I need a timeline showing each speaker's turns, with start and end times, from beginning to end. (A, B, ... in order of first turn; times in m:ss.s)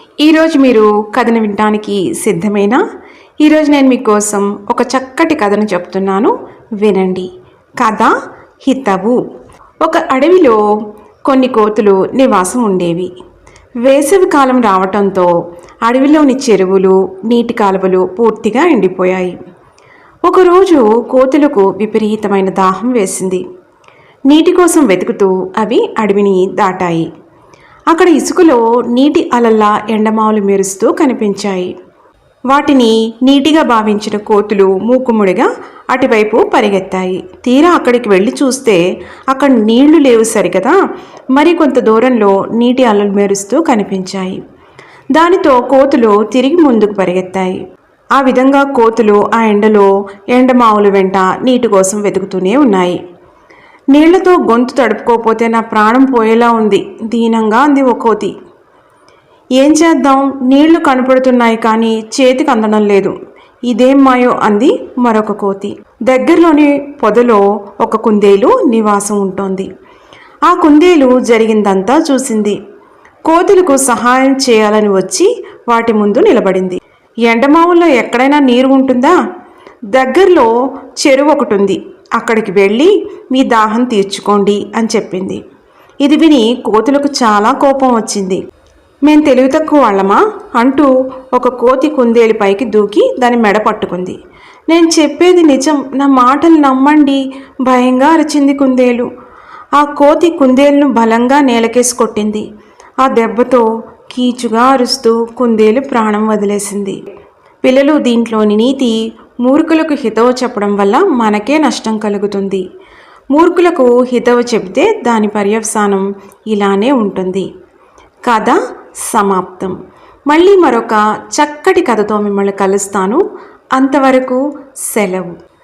0:00.2-0:02.8 A
0:03.4-0:07.3 A
0:07.8-0:08.1 A
0:08.6-0:09.2 A
0:09.8-0:10.6 A
0:11.3-0:13.1 A
0:13.8-0:15.3 A
0:15.8-0:19.4 A
0:20.2-0:23.4 A
0:24.3-0:27.1 A
0:27.9-0:31.7 A
0:32.5-0:40.8 A
0:41.3-0:44.4 A
0:45.1-0:47.6 A
0:48.2-0:53.0 A
0:53.9-0:58.3 A
0:59.6-1:03.1 A
1:03.7-1:09.7 A
1:10.5-1:12.6 A
1:13.3-1:19.2 A
1:19.9-1:20.5 A
1:21.0-1:25.4 A
1:26.0-1:28.4 A
1:29.0-1:34.2 A
1:34.7-1:39.1 A
1:39.8-1:42.4 A
1:43.0-1:47.0 A
1:47.6-1:52.6 A
1:53.3-1:57.5 A
1:58.2-1:59.8 A
2:00.3-2:03.2 A
2:03.8-2:05.3 A